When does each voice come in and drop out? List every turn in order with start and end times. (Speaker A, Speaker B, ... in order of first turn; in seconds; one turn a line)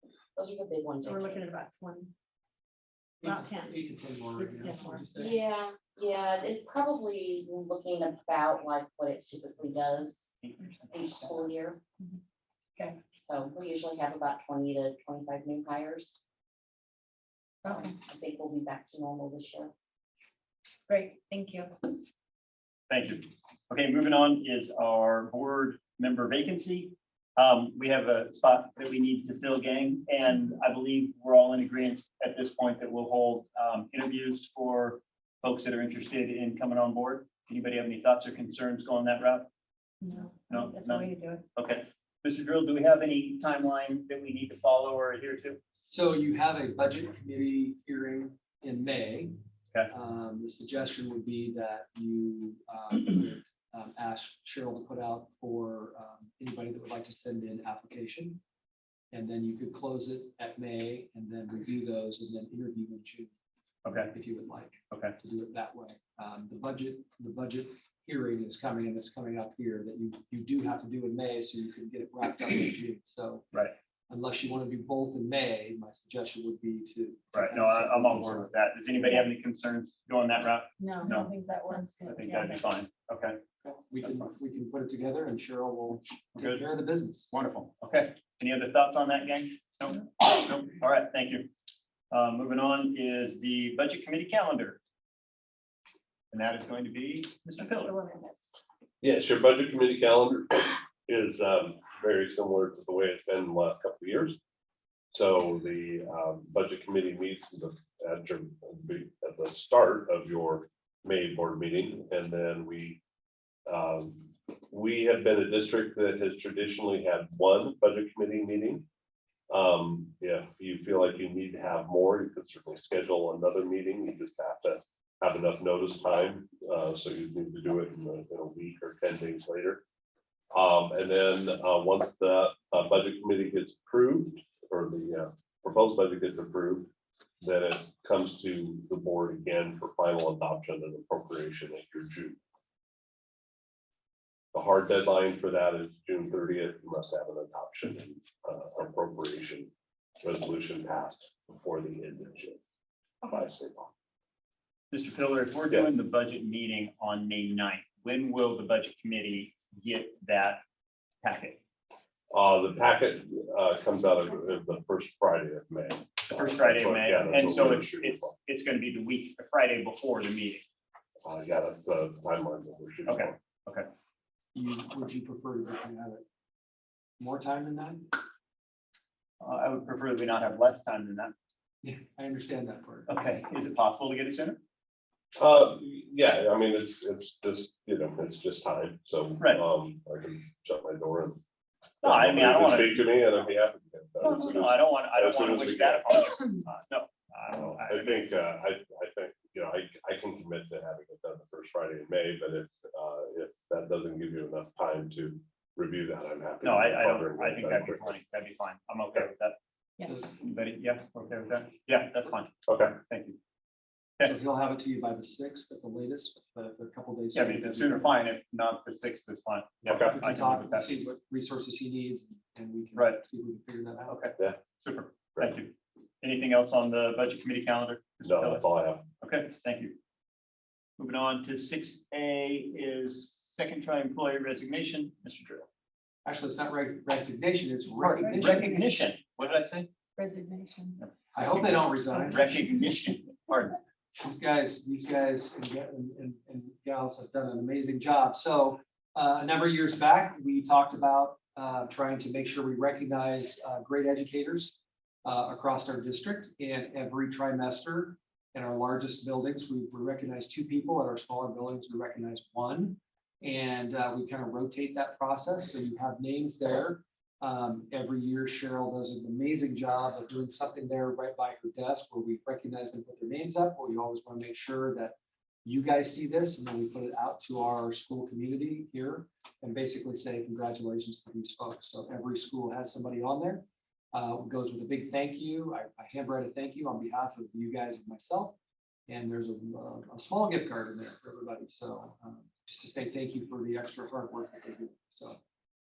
Speaker A: 0.4-1.4
Speaker B: 1.0-2.1
Speaker C: 3.2-5.4
Speaker B: 3.2-3.8
Speaker B: 4.4-5.0
Speaker A: 5.2-10.3
Speaker D: 10.4-11.5
Speaker A: 10.9-11.8
Speaker A: 13.2-16.2
Speaker B: 17.6-17.9
Speaker A: 17.7-19.7
Speaker B: 20.9-21.8
Speaker D: 22.9-39.5
Speaker B: 40.0-41.5
Speaker D: 40.5-45.6
Speaker C: 45.9-49.4
Speaker C: 49.9-58.4
Speaker C: 59.1-63.3
Speaker D: 63.9-64.1
Speaker C: 64.1-73.5
Speaker D: 64.9-65.2
Speaker C: 74.1-78.5
Speaker D: 77.3-81.3
Speaker B: 80.8-82.6
Speaker D: 82.0-83.4
Speaker C: 83.6-87.3
Speaker D: 84.0-84.3
Speaker D: 86.3-86.7
Speaker D: 87.3-91.5
Speaker D: 92.1-94.8
Speaker D: 96.3-98.0
Speaker B: 97.8-98.4
Speaker E: 99.0-104.4
Speaker E: 105.1-113.0
Speaker E: 113.7-118.8
Speaker E: 119.5-129.8
Speaker E: 130.5-142.4
Speaker E: 144.5-149.7
Speaker E: 150.2-152.6
Speaker E: 153.2-153.9
Speaker D: 154.9-160.6
Speaker D: 161.2-161.6
Speaker E: 162.3-168.3
Speaker D: 166.3-170.6
Speaker E: 171.2-173.4
Speaker D: 173.1-173.9
Speaker C: 174.5-176.2
Speaker C: 177.2-178.2
Speaker D: 179.4-181.3
Speaker C: 181.8-183.1
Speaker D: 183.1-184.6
Speaker E: 185.4-191.4
Speaker E: 192.0-196.2
Speaker D: 192.0-193.5
Speaker D: 194.2-198.3
Speaker E: 197.5-208.1
Speaker D: 206.6-209.6
Speaker D: 210.2-212.5
Speaker E: 212.7-213.0
Speaker D: 213.1-213.4
Speaker C: 214.2-218.1
Speaker D: 217.3-221.0
Speaker E: 219.8-220.2
Speaker C: 219.9-224.2
Speaker D: 223.0-223.2
Speaker D: 224.1-228.7
Speaker E: 228.2-229.1
Speaker D: 229.2-230.0
Speaker D: 231.0-235.7
Speaker C: 236.2-238.8
Speaker D: 238.0-239.9
Speaker B: 240.2-241.0
Speaker D: 241.0-243.8
Speaker C: 241.3-242.6
Speaker C: 244.2-288.6
Speaker C: 289.1-295.4